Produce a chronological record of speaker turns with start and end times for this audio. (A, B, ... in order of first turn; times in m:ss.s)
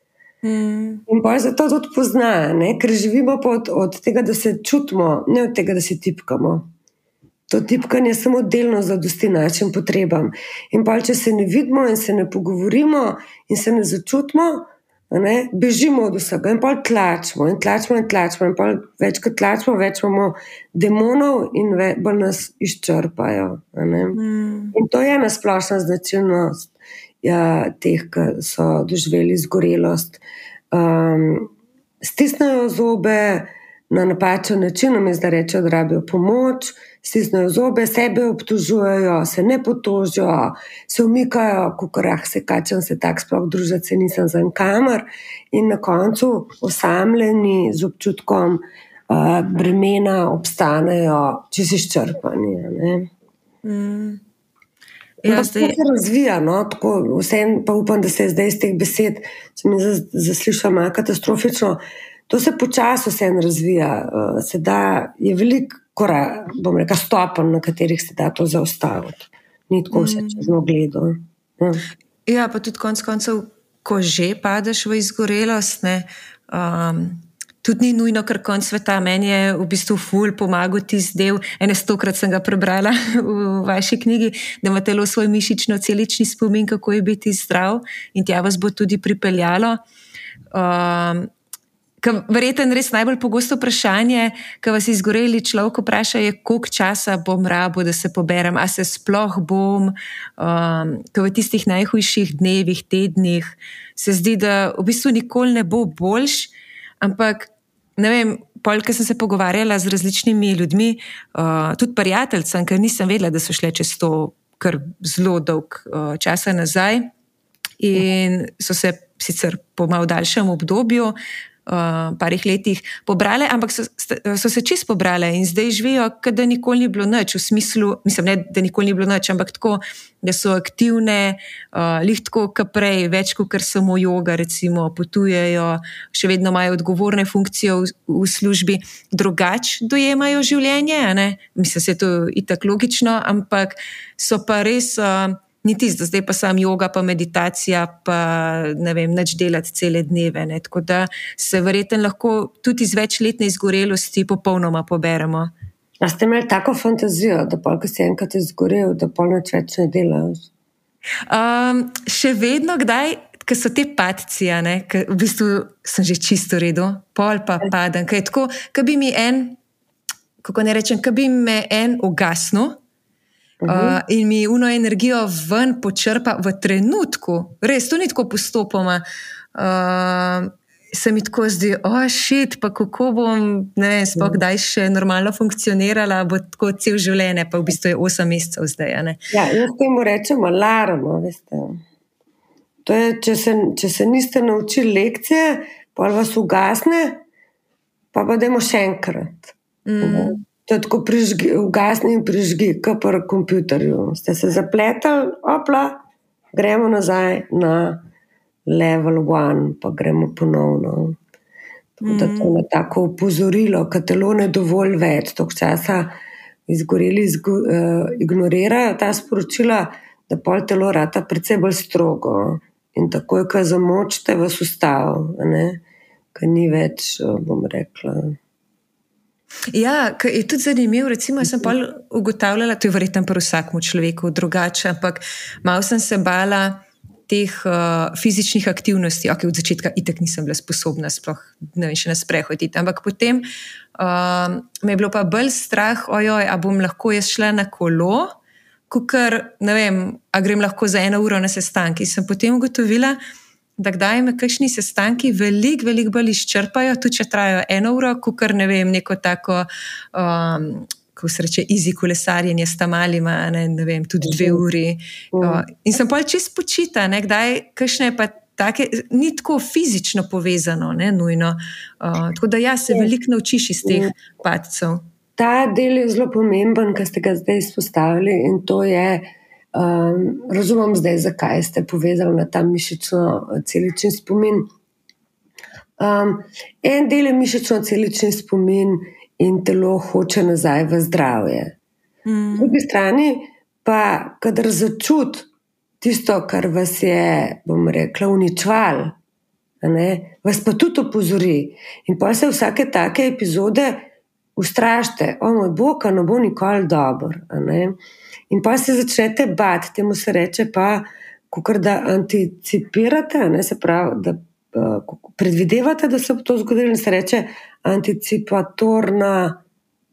0:00.4-0:01.0 A
0:01.1-0:06.7 B
0:07.5-0:24.2 B
0:24.1-0:24.7 A
0:24.7-0:26.7 B
0:27.2-0:30.2 B
0:30.7-0:31.5 B
0:32.0-0:53.1 B
0:53.6-0:54.2 A
0:55.2-0:55.8 A
0:55.2-1:11.8 B
1:09.9-1:10.5 A
1:12.2-1:29.8 A
1:30.5-1:31.3 A
1:32.0-1:57.1 A
1:57.8-2:35.5 A
2:36.0-2:40.5 B
2:41.3-2:49.6 A
2:50.4-2:52.8 A
2:53.6-2:54.0 B
2:53.6-2:59.0 A
2:59.5-3:09.2 A
3:04.1-3:04.4 B
3:09.3-3:11.8 B
3:12.8-3:17.2 B
3:18.1-3:26.0 B
3:19.8-3:20.4 A
3:26.5-3:28.0 B
3:28.7-3:31.2 B
3:32.0-3:36.1 B
3:32.0-3:32.5 A
3:36.7-3:45.8 B
3:46.3-3:48.4 B
3:49.7-4:03.4 A
4:04.0-4:08.3 A
4:08.9-4:13.2 A
4:13.8-4:35.0 A
4:24.2-4:24.6 B
4:25.3-4:25.6 B
4:33.8-4:34.1 B
4:35.4-4:44.7 B
4:46.0-4:51.7 B
4:52.2-4:52.7 A
4:52.5-4:55.5 B
4:56.0-4:59.1 B
4:59.8-5:07.9 B
5:08.5-5:19.6 B